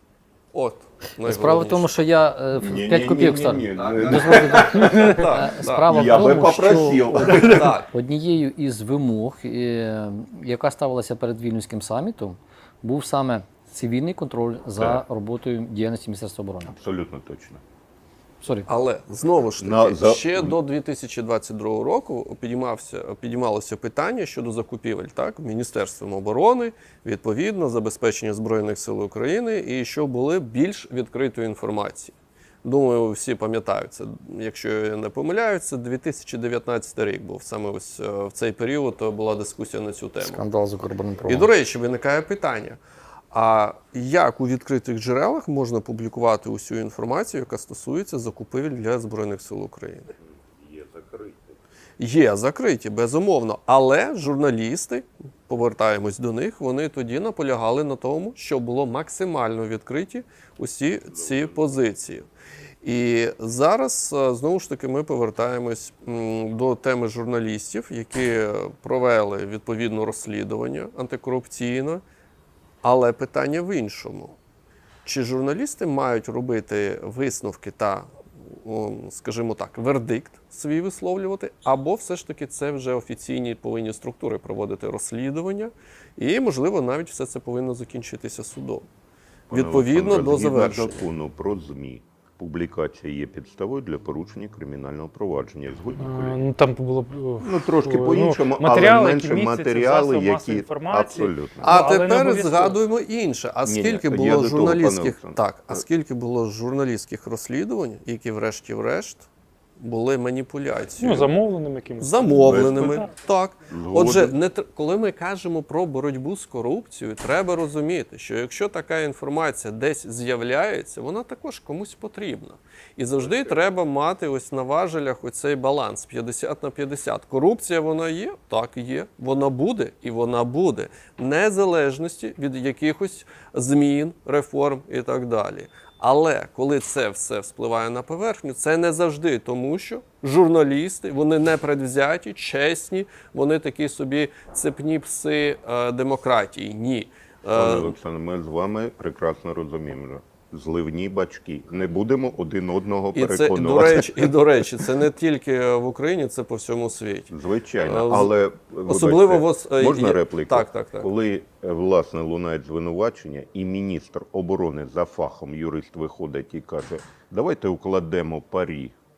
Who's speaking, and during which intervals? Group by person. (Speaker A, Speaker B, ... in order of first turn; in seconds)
Speaker A: 0.5-1.9, 4.5-6.2, 7.0-7.9, 18.7-40.4, 41.2-42.8, 43.3-50.1, 52.0-62.3, 62.8-72.0, 72.8-74.4, 75.0-88.9, 89.5-91.0, 101.6-109.3, 109.8-111.3, 112.0-147.9, 153.1-158.3, 158.9-161.1
Speaker B: 1.2-7.1, 7.9-16.7, 40.2-41.5
Speaker C: 2.5-5.0, 5.8-7.7, 14.8-15.0, 16.7-17.6, 19.6-20.6, 50.4-51.5, 61.1-61.5, 89.5-96.4, 97.4-101.8, 103.6-105.8, 112.3-113.1, 113.7-114.4, 147.5-154.9, 157.3-168.9
Speaker D: 96.0-102.8, 111.0-112.6